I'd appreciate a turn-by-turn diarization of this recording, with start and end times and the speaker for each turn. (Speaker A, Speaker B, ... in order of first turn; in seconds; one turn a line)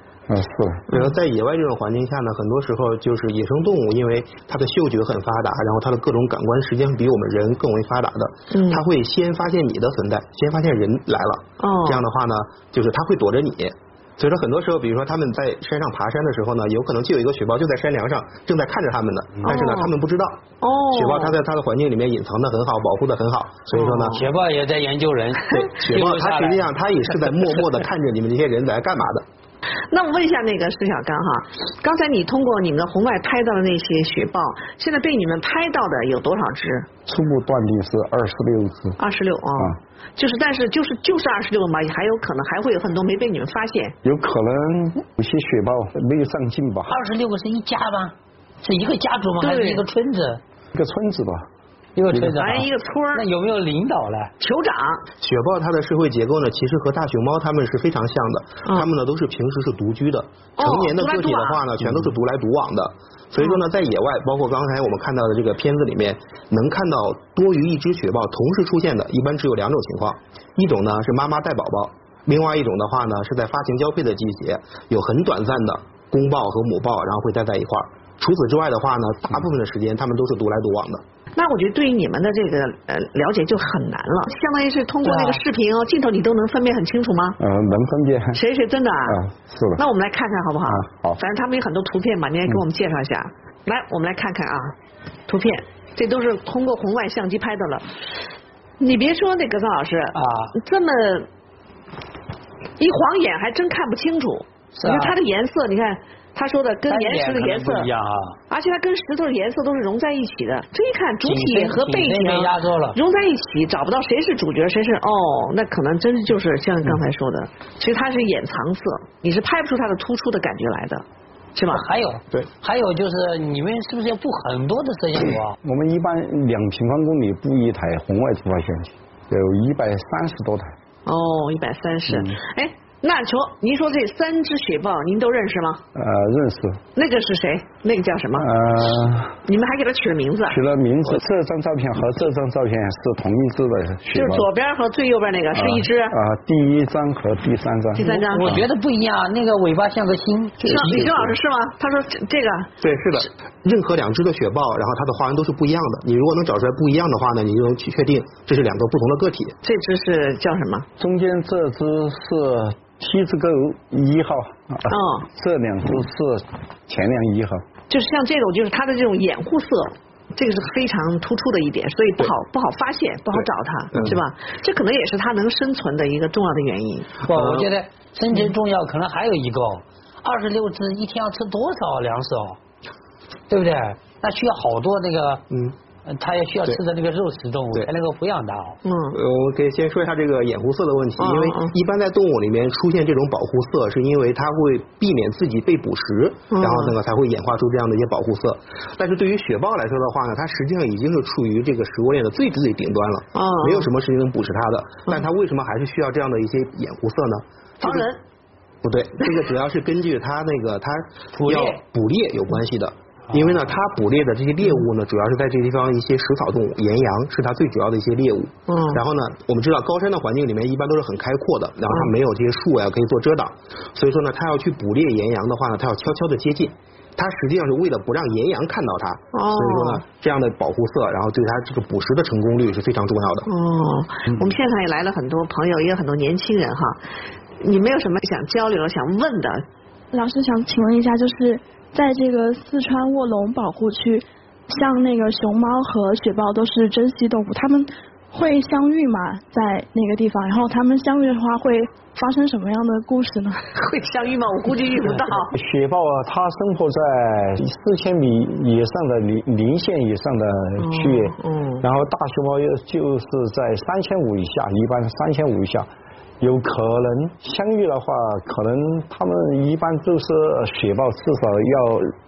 Speaker A: 0.3-0.8
Speaker B: 0.9-1.1
Speaker C: 0.9-24.2
Speaker B: 8.5-8.8
Speaker B: 11.6-12.0
Speaker B: 19.4-19.9
Speaker B: 20.6-21.4
Speaker B: 23.7-24.2
Speaker D: 24.0-27.7
Speaker C: 25.5-29.2
Speaker B: 29.9-36.9
Speaker A: 37.1-39.0
Speaker B: 39.0-44.0
Speaker A: 44.0-47.0
Speaker D: 46.9-50.4
Speaker B: 49.4-49.8
Speaker A: 50.7-51.5
Speaker D: 52.0-54.3
Speaker A: 52.1-52.4
Speaker B: 52.3-53.2
Speaker B: 54.4-55.0
Speaker C: 55.2-81.0
Speaker B: 60.6-61.6
Speaker B: 81.4-87.4
Speaker D: 85.0-85.4
Speaker A: 87.4-88.4
Speaker B: 88.3-89.2
Speaker A: 89.1-89.8
Speaker B: 89.8-94.8
Speaker A: 90.7-91.2
Speaker B: 95.3-97.9
Speaker B: 98.8-101.3
Speaker D: 100.1-100.5
Speaker B: 102.8-107.9
Speaker D: 104.8-105.2
Speaker D: 106.9-108.4
Speaker B: 108.5-121.0
Speaker D: 111.2-113.0
Speaker B: 121.5-121.8
Speaker D: 121.7-125.6
Speaker A: 125.6-130.7
Speaker B: 131.1-135.8
Speaker A: 132.1-132.4
Speaker A: 135.9-136.8
Speaker B: 136.9-138.5
Speaker A: 138.4-139.4
Speaker B: 139.4-140.6
Speaker A: 140.5-144.5
Speaker B: 144.1-146.2
Speaker A: 145.5-148.6
Speaker B: 148.0-148.5
Speaker D: 148.0-151.2
Speaker A: 150.6-151.3
Speaker B: 150.7-152.7
Speaker C: 152.8-159.6
Speaker B: 159.6-160.9
Speaker A: 161.0-167.6
Speaker B: 164.9-165.3
Speaker B: 167.9-177.3
Speaker D: 177.3-182.6
Speaker D: 183.5-185.4
Speaker D: 186.1-188.8
Speaker B: 188.8-189.2
Speaker C: 189.1-208.1
Speaker B: 191.2-191.8
Speaker B: 196.5-197.0
Speaker B: 203.3-203.9
Speaker B: 207.8-208.2
Speaker C: 208.8-233.5
Speaker D: 211.3-211.8
Speaker B: 218.7-219.0
Speaker B: 229.3-230.0
Speaker B: 233.5-237.0
Speaker B: 237.6-239.7
Speaker E: 240.1-253.7
Speaker B: 253.7-255.5
Speaker A: 255.5-265.9
Speaker B: 260.8-261.9
Speaker A: 266.4-272.1